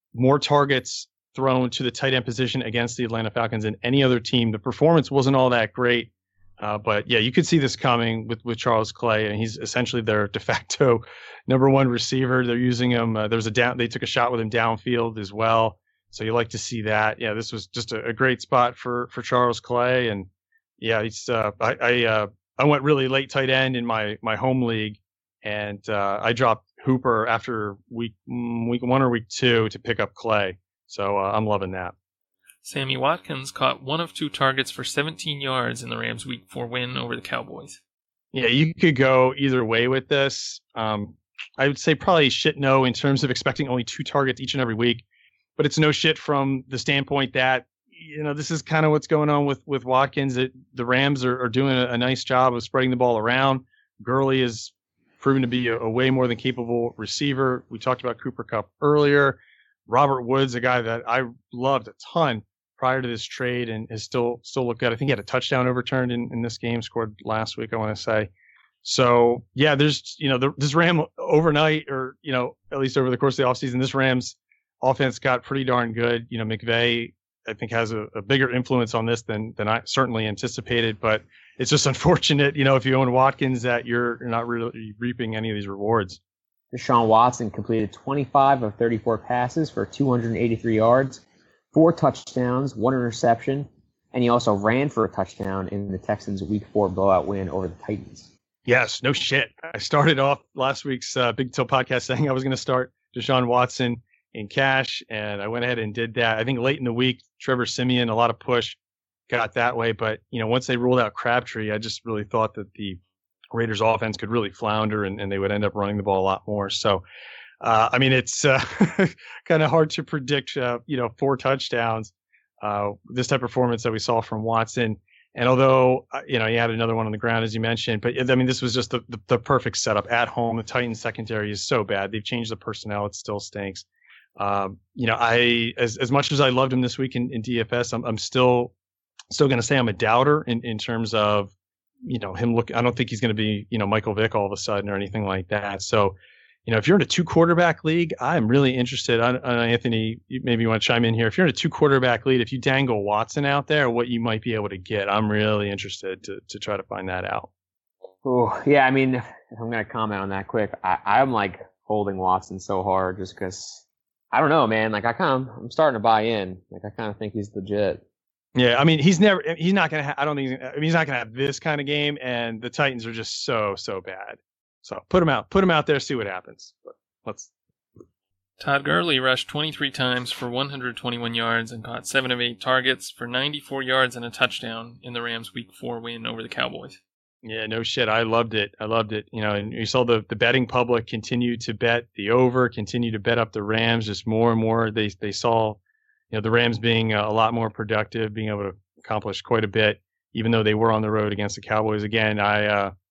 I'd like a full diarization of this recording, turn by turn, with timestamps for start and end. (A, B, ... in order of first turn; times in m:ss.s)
0:00.1-0:20.3 A
0:20.8-0:31.9 A
0:32.6-0:37.8 B
0:38.3-0:45.0 A
0:45.6-1:08.3 A
1:08.8-1:26.2 A
1:26.7-1:31.2 C
1:31.7-1:38.3 C
1:38.6-1:48.8 A
1:49.3-1:53.0 A
1:53.5-1:57.0 A
1:57.6-2:13.8 A
2:14.4-2:18.7 A
2:19.3-2:21.5 A
2:22.0-2:26.1 A
2:26.6-2:37.5 A
2:38.2-2:48.0 C
2:48.5-2:57.5 A
2:58.6-3:07.0 B
3:07.4-3:15.8 A
3:16.3-3:22.9 A